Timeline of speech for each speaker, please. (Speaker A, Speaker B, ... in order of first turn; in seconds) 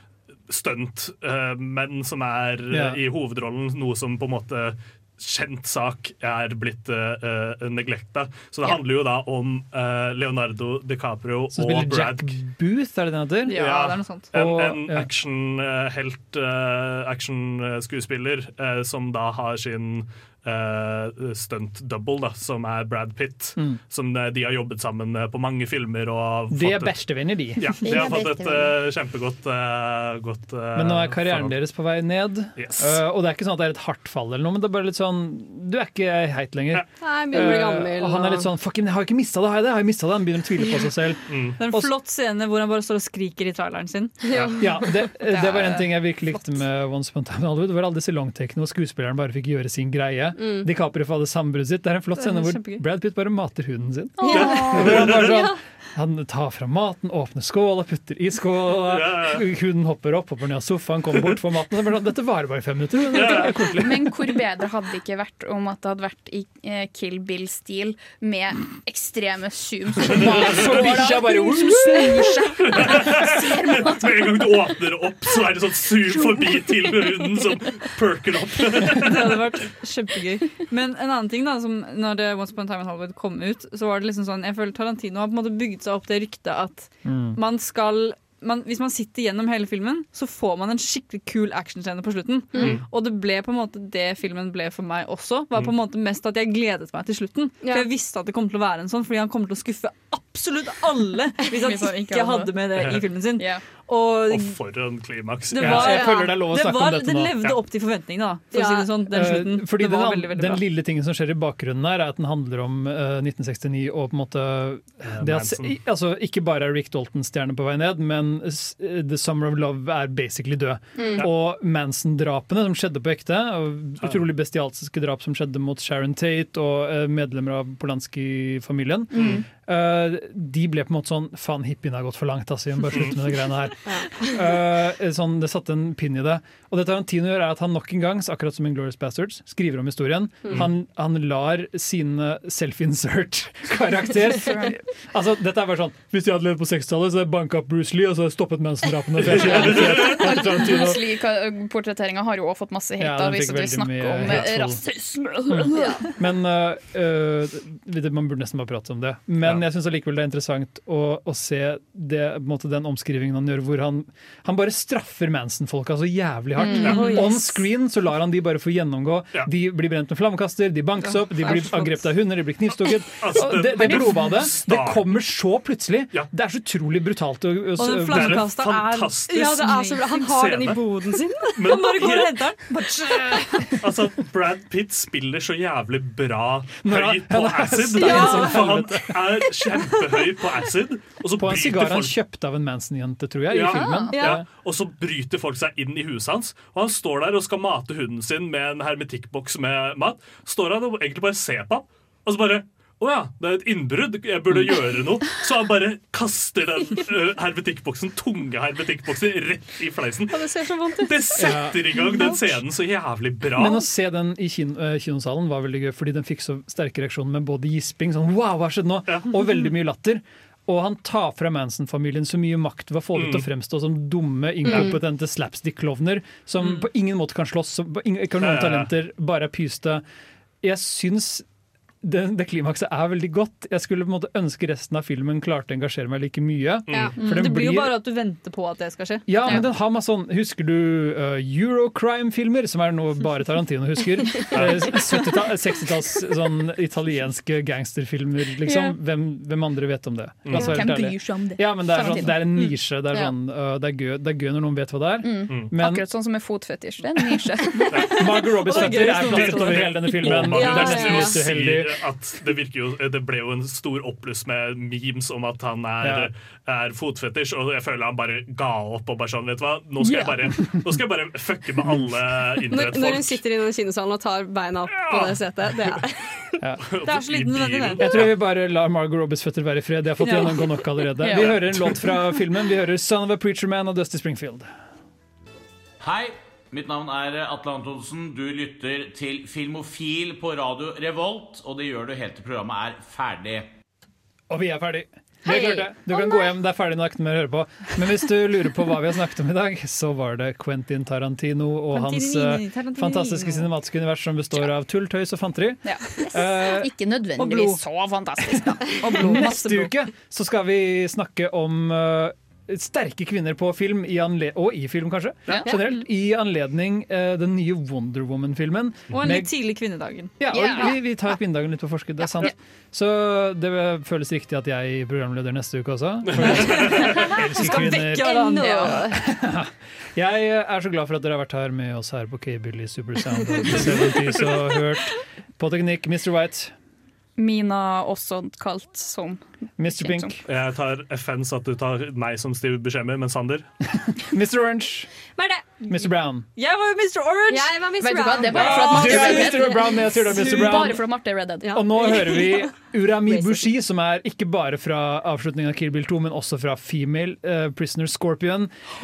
Speaker A: 0.5-12.4, 13.6-31.6, 32.6-33.0, 41.3-41.6, 54.3-55.4, 58.9-59.4, 63.1-63.6, 72.6-79.4, 102.8-103.0, 104.3-106.0, 115.1-115.8, 129.2-129.4, 132.9-133.2, 173.2-175.2, 178.1-179.6, 180.1-180.8, 181.6-182.4, 183.8-192.2, 193.5-213.8, 223.2-223.4, 228.4-228.9, 236.9-237.2, 244.5-245.1, 250.4-250.8, 258.7-273.4, 274.9-276.0, 276.9-278.3, 326.3-327.4, 333.7-334.5, 340.5-343.7
Speaker B: 2.7-3.0, 11.5-13.6, 14.3-15.1, 26.5-28.1, 30.8-41.9, 44.6-64.2, 70.0-72.5, 87.0-87.4, 105.6-107.4, 109.1-151.1, 153.0-154.8, 155.5-178.5, 186.8-189.5, 191.4-194.4, 211.4-212.2, 213.5-230.0, 230.6-231.4, 232.0-237.9, 239.3-256.1, 258.0-262.0, 266.0-266.3, 271.9-272.1, 276.6-276.9, 278.0-284.7, 294.5-306.9, 309.2-319.5, 320.4-336.7, 339.8-340.4, 344.0-345.1, 345.9-346.5, 348.5-351.1, 351.7-358.7
Speaker C: 13.5-14.3, 41.6-46.5, 52.2-52.8, 78.9-104.6, 105.5-110.6, 171.0-171.9, 177.8-180.1, 181.6-183.8, 237.2-239.6, 258.4-260.9, 277.1-278.1, 280.2-280.6, 301.9-303.7, 307.4-307.8, 309.0-309.9, 315.7-316.0, 319.1-320.9, 326.7-329.0, 346.6-347.7, 348.6-348.9
Speaker D: 37.0-38.5, 44.3-44.8, 50.4-50.7, 54.3-54.7, 92.5-92.8, 97.6-97.9, 105.8-106.3, 108.5-109.0, 133.9-134.4, 166.6-167.5, 179.3-181.8, 188.0-188.6, 194.1-194.4, 210.3-211.5, 224.7-224.9, 260.4-261.4, 272.7-276.6, 327.6-329.2, 345.4-345.8, 347.5-350.8, 351.6-352.7, 353.2-353.7
Speaker E: 54.2-55.1, 63.7-74.5, 101.6-102.5, 121.0-121.2, 149.6-156.1, 166.7-167.3, 193.8-194.2, 248.7-249.0, 250.5-253.3, 255.2-257.8, 270.0-270.5, 281.2-281.6, 295.5-295.8, 305.9-309.5, 315.5-315.7, 320.5-321.0, 328.5-328.9, 337.4-340.4, 348.0-351.8
Speaker F: 286.0-293.7